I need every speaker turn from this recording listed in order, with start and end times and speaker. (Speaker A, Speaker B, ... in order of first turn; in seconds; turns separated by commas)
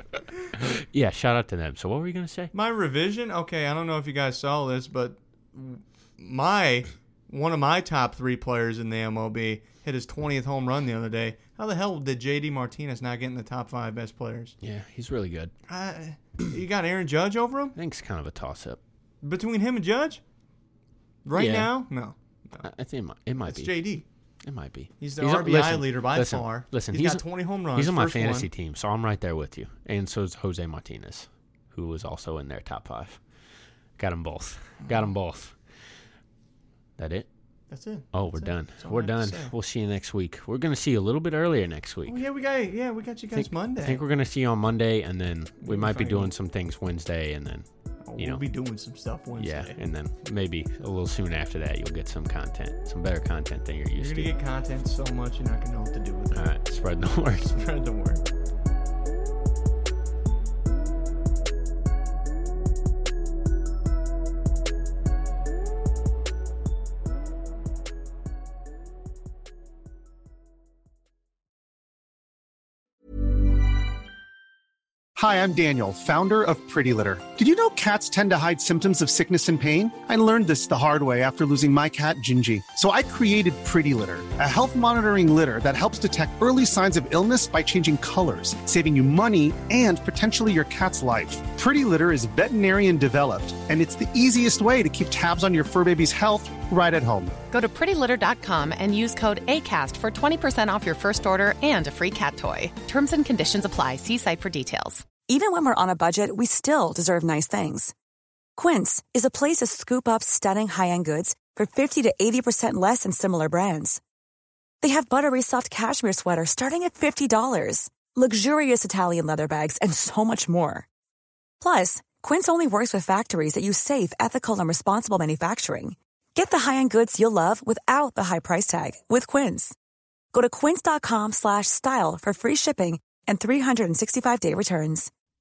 Speaker A: 0.6-2.5, Speaker B: 2.5-14.6, Speaker A: 14.6-15.5, Speaker B: 15.7-17.8, Speaker A: 17.8-18.8, Speaker B: 19.2-20.2, Speaker B: 21.2-22.7, Speaker A: 21.3-21.7, Speaker A: 22.6-23.7, Speaker B: 23.4-24.1, Speaker A: 24.4-33.2, Speaker B: 25.0-28.5, Speaker A: 34.0-35.6, Speaker A: 37.0-37.3, Speaker B: 37.7-39.5, Speaker A: 38.1-42.2, Speaker B: 42.1-44.0, Speaker A: 43.3-47.7, Speaker B: 45.6-46.3, Speaker B: 48.0-49.8, Speaker A: 48.2-48.4, Speaker A: 49.4-54.3, Speaker B: 54.0-56.5, Speaker A: 56.3-57.5, Speaker B: 57.2-58.2, Speaker C: 75.2-97.3, Speaker D: 97.5-105.1, Speaker E: 105.2-107.9, Speaker E: 108.6-114.0, Speaker E: 114.8-120.9, Speaker E: 121.6-129.8, Speaker E: 130.3-135.1